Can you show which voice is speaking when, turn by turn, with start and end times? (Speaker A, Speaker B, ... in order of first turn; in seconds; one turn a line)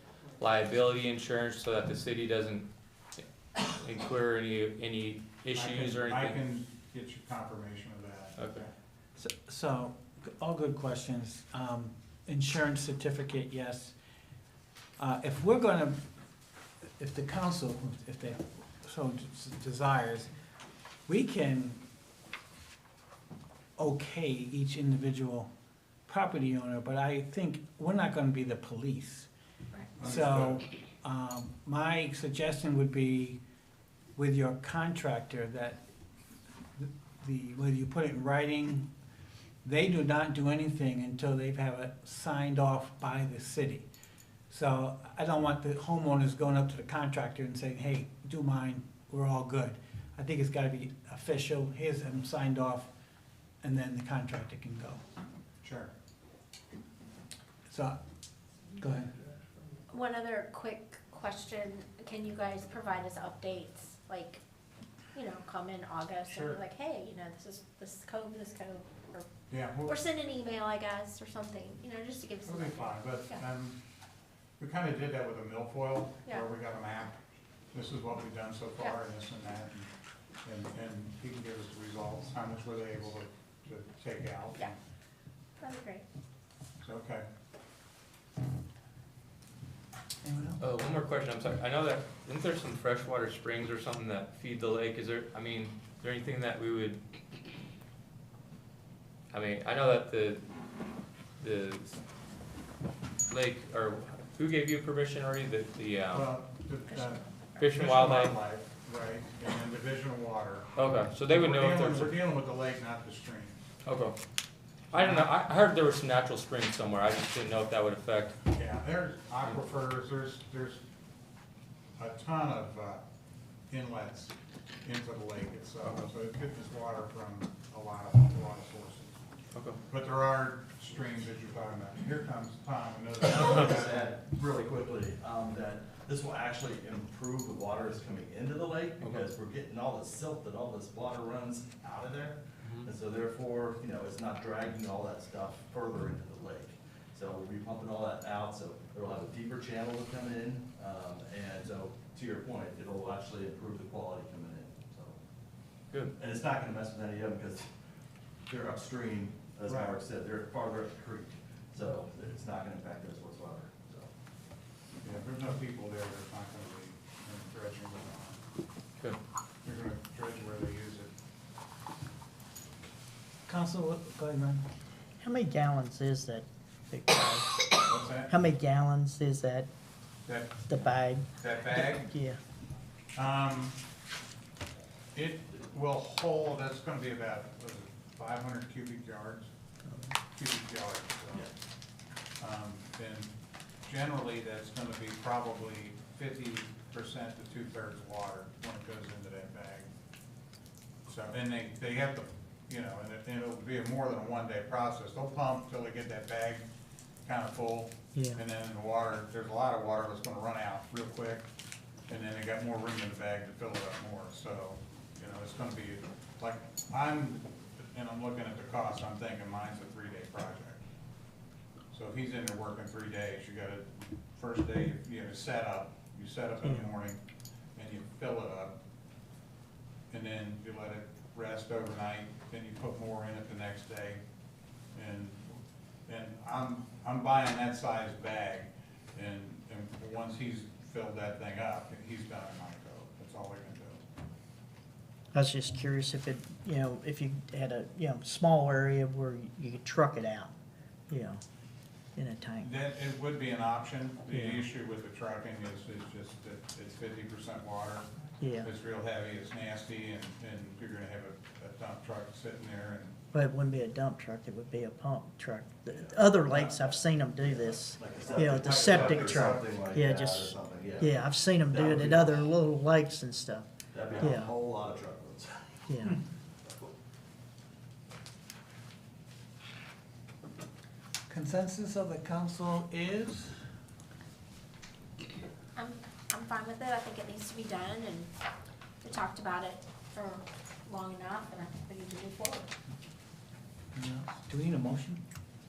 Speaker A: 0.4-6.4
Speaker B: 5.5-8.7
Speaker A: 8.4-8.6
Speaker C: 9.2-13.9
Speaker C: 15.0-16.0
Speaker C: 17.0-20.3
Speaker C: 21.1-21.8
Speaker C: 23.8-25.5
Speaker C: 26.1-29.3
Speaker B: 30.0-30.6
Speaker C: 30.0-33.4
Speaker C: 34.1-35.8
Speaker C: 36.8-38.9
Speaker C: 39.6-43.9
Speaker C: 44.5-52.9
Speaker C: 53.6-55.0
Speaker B: 55.6-55.9
Speaker C: 57.7-58.0
Speaker C: 58.8-59.1
Speaker D: 59.9-64.4
Speaker D: 65.1-69.3
Speaker B: 66.3-66.6
Speaker B: 69.5-70.0
Speaker D: 69.8-73.4
Speaker B: 72.4-73.8
Speaker B: 74.6-77.2
Speaker B: 77.7-79.9
Speaker B: 80.4-84.7
Speaker D: 85.6-86.0
Speaker B: 86.8-87.2
Speaker C: 90.2-90.6
Speaker A: 90.6-97.0
Speaker A: 99.3-100.4
Speaker A: 101.4-101.9
Speaker A: 103.3-106.3
Speaker B: 106.1-110.7
Speaker A: 107.6-108.4
Speaker A: 110.7-112.2
Speaker B: 111.2-113.6
Speaker A: 113.9-114.2
Speaker A: 114.9-118.4
Speaker B: 114.9-115.3
Speaker B: 118.5-120.8
Speaker B: 122.0-123.0
Speaker B: 123.7-124.3
Speaker B: 124.8-129.2
Speaker A: 129.6-129.8
Speaker B: 129.9-134.2
Speaker E: 133.2-155.2
Speaker E: 156.1-157.7
Speaker E: 158.5-164.1
Speaker B: 159.7-160.0
Speaker B: 165.0-168.4
Speaker B: 169.6-171.1
Speaker C: 173.5-174.7
Speaker F: 175.2-177.7
Speaker B: 177.8-178.3
Speaker F: 178.3-179.7
Speaker B: 180.3-180.7
Speaker F: 180.7-182.4
Speaker B: 181.4-182.1
Speaker B: 183.2-183.8
Speaker B: 185.2-189.5
Speaker B: 190.3-191.5
Speaker B: 192.4-193.3
Speaker B: 193.8-199.9
Speaker B: 201.1-206.7
Speaker B: 207.2-211.5
Speaker F: 208.2-208.4
Speaker B: 212.1-220.8
Speaker B: 221.9-227.2
Speaker B: 227.8-228.8
Speaker B: 230.1-234.2
Speaker B: 234.9-244.0
Speaker F: 245.3-250.5
Speaker F: 251.1-251.4
Speaker F: 252.2-252.7
Speaker B: 252.6-258.1
Speaker F: 254.3-254.6
Speaker F: 258.4-258.7
Speaker B: 258.6-263.2
Speaker F: 263.3-274.5
Speaker E: 265.9-272.5
Speaker B: 268.4-269.6
Speaker E: 273.9-275.9
Speaker F: 275.9-276.2
Speaker C: 281.3-283.5
Speaker D: 285.8-288.3
Speaker D: 289.0-292.7
Speaker C: 293.9-295.2